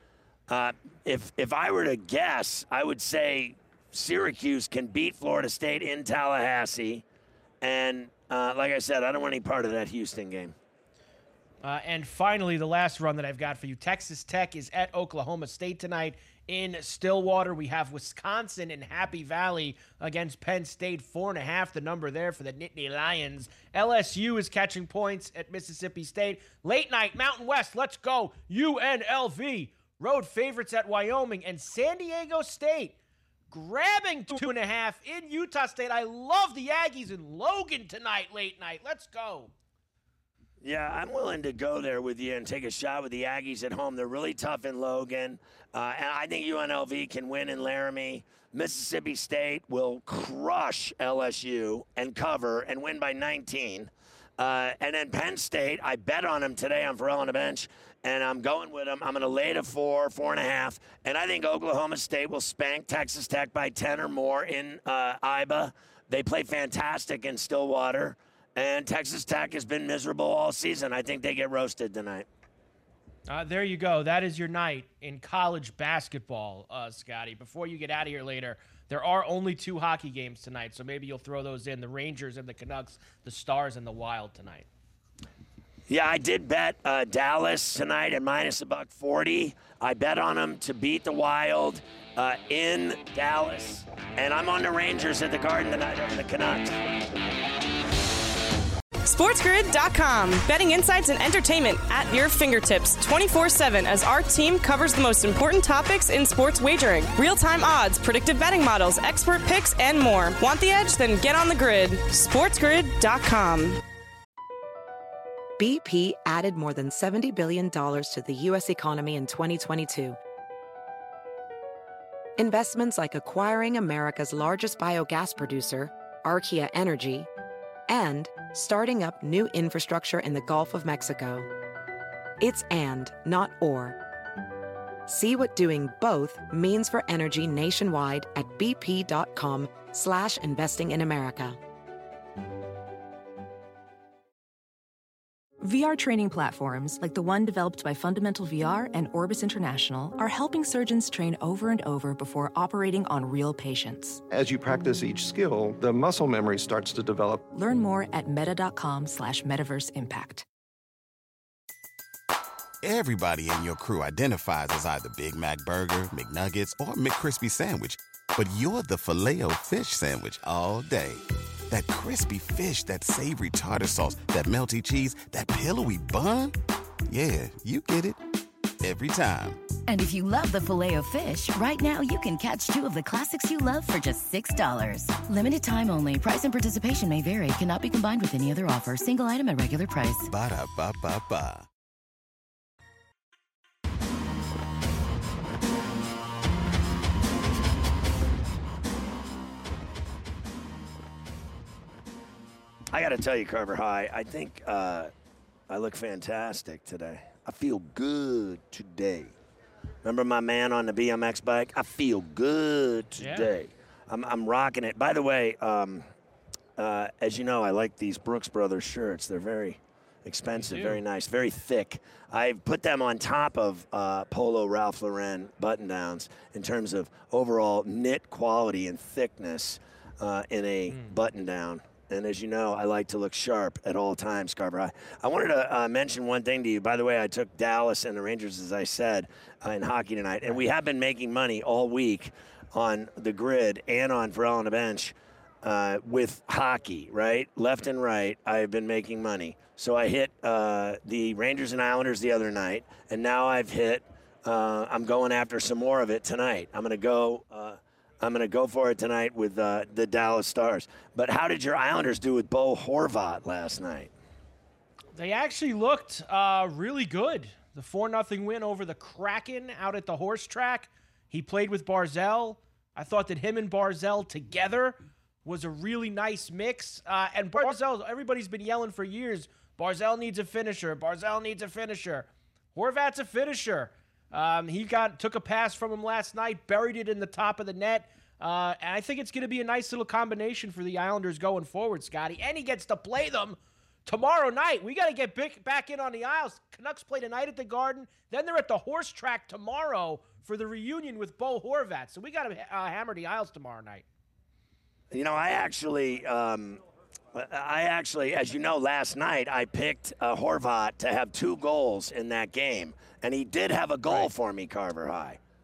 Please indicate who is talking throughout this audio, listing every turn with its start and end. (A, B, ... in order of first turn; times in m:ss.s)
0:00.5-0:07.0 A
0:07.6-0:10.5 A
0:11.6-0:33.0 B
0:33.5-0:39.5 B
0:40.6-1:12.2 A
1:13.3-1:24.6 B
1:25.9-1:36.8 A
1:39.0-1:53.8 C
1:55.6-2:00.2 D
2:02.4-2:07.3 D
2:07.9-2:11.5 D
2:12.4-2:14.0 D
2:15.1-2:21.6 D
2:25.6-2:34.2 E
2:34.3-2:37.4 F
2:37.5-2:40.4 E
2:42.8-2:56.6 G
2:57.1-2:58.2 G
2:58.8-2:59.6 G
2:59.9-3:10.3 H
3:10.3-3:11.7 G
3:22.9-3:25.1 A
3:25.7-3:29.3 A
3:30.0-3:36.0 A
3:33.2-3:33.5 B
3:36.8-4:24.1 A
3:40.5-3:41.0 B
3:50.9-3:51.2 B
4:25.1-5:04.0 B
5:05.1-5:06.8 A
5:07.3-5:15.4 A